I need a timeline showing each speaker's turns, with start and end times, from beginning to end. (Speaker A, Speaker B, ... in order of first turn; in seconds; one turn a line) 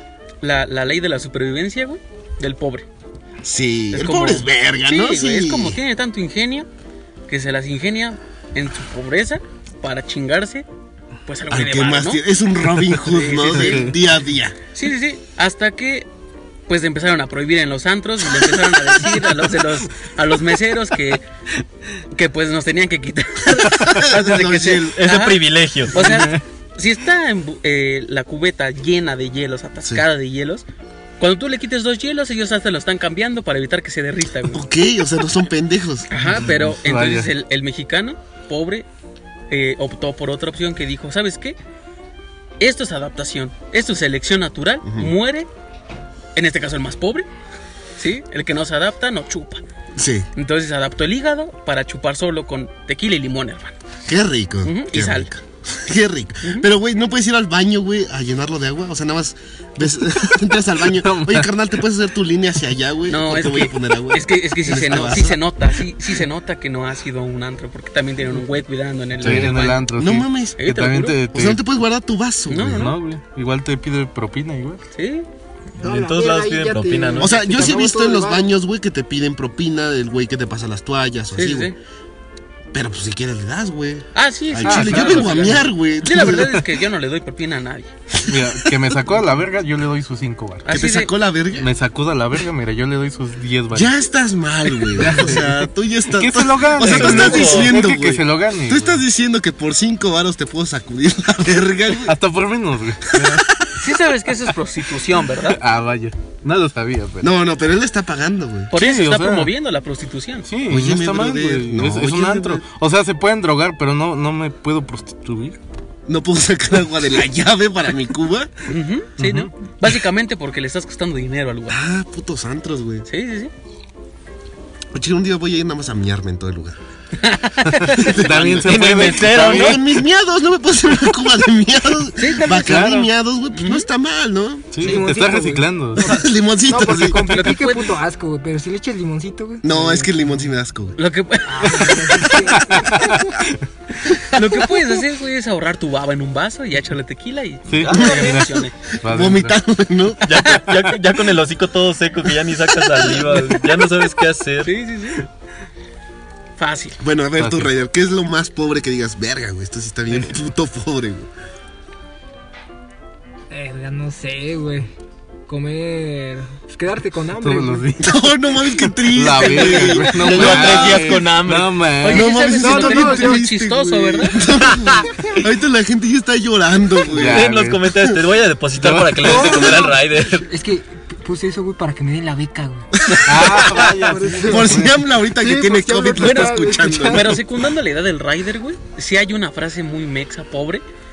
Speaker A: 0.4-2.9
Speaker B: 3.4-5.8
Speaker A: 3.9-6.7
Speaker A: 7.3-10.7
Speaker A: 11.3-12.2
Speaker B: 11.5-14.6
Speaker A: 13.0-13.9
Speaker C: 13.6-13.9
Speaker A: 14.8-16.1
Speaker A: 16.7-21.3
Speaker A: 22.1-30.6
Speaker B: 23.7-25.0
Speaker D: 24.9-26.2
Speaker C: 26.1-26.4
Speaker A: 31.2-34.7
Speaker B: 34.5-36.1
Speaker A: 36.1-38.9
Speaker C: 36.1-37.3
Speaker A: 39.5-41.6
Speaker A: 42.6-45.5
Speaker B: 44.9-45.1
Speaker A: 46.4-47.3
Speaker A: 48.0-49.6
Speaker B: 50.0-50.3
Speaker A: 50.4-53.8
Speaker B: 54.1-65.4
Speaker A: 54.6-55.3
Speaker C: 60.9-61.5
Speaker A: 63.1-69.8
Speaker C: 69.2-71.6
Speaker B: 69.2-70.6
Speaker A: 70.6-71.2
Speaker B: 71.3-73.0
Speaker A: 72.5-73.0
Speaker C: 72.7-74.8
Speaker A: 75.0-75.3
Speaker D: 75.8-77.5
Speaker E: 75.8-78.5
Speaker B: 77.2-81.7
Speaker A: 81.3-81.8
Speaker B: 82.7-86.6
Speaker A: 84.2-87.9
Speaker C: 84.6-85.6
Speaker C: 88.3-90.7
Speaker B: 88.3-88.8
Speaker A: 90.7-91.1
Speaker B: 90.7-91.7
Speaker C: 91.5-94.0
Speaker B: 93.7-102.2
Speaker C: 94.9-99.0
Speaker D: 96.8-97.8
Speaker C: 102.0-103.4
Speaker B: 103.1-104.0
Speaker A: 103.8-105.6
Speaker C: 105.5-107.3
Speaker B: 107.2-108.7
Speaker A: 108.7-110.5
Speaker C: 108.8-109.5
Speaker C: 110.5-115.6
Speaker B: 110.7-112.6
Speaker B: 116.1-118.7
Speaker A: 118.7-121.8
Speaker C: 119.2-119.5
Speaker B: 121.7-123.1
Speaker A: 123.1-123.5
Speaker B: 124.9-126.8
Speaker A: 127.2-128.2
Speaker C: 127.9-129.8
Speaker B: 128.0-134.8
Speaker D: 128.3-129.8
Speaker A: 132.2-133.9
Speaker C: 132.5-133.1
Speaker C: 134.7-136.1
Speaker E: 134.8-140.4
Speaker B: 136.0-137.3
Speaker A: 137.3-137.9
Speaker B: 139.6-141.0
Speaker A: 141.0-142.8
Speaker E: 141.5-143.2
Speaker C: 142.5-143.5
Speaker A: 144.2-148.7
Speaker C: 147.7-149.6
Speaker D: 147.8-148.3
Speaker B: 147.9-148.4
Speaker B: 149.0-150.5
Speaker D: 150.2-154.7
Speaker A: 154.6-155.2
Speaker A: 156.6-157.0
Speaker B: 157.0-161.3
Speaker C: 157.4-157.7
Speaker E: 163.5-164.9
Speaker E: 165.5-168.0
Speaker C: 167.4-168.2
Speaker B: 168.0-171.2
Speaker C: 169.1-172.4
Speaker A: 169.3-170.1
Speaker D: 170.2-171.9
Speaker A: 172.0-174.4
Speaker B: 172.1-178.2
Speaker E: 172.6-173.4
Speaker C: 177.1-177.8
Speaker D: 177.2-180.5
Speaker C: 178.8-179.4
Speaker E: 179.2-182.9
Speaker B: 183.0-183.7
Speaker C: 183.2-184.9
Speaker E: 183.7-187.3
Speaker B: 184.4-187.4
Speaker A: 186.2-190.8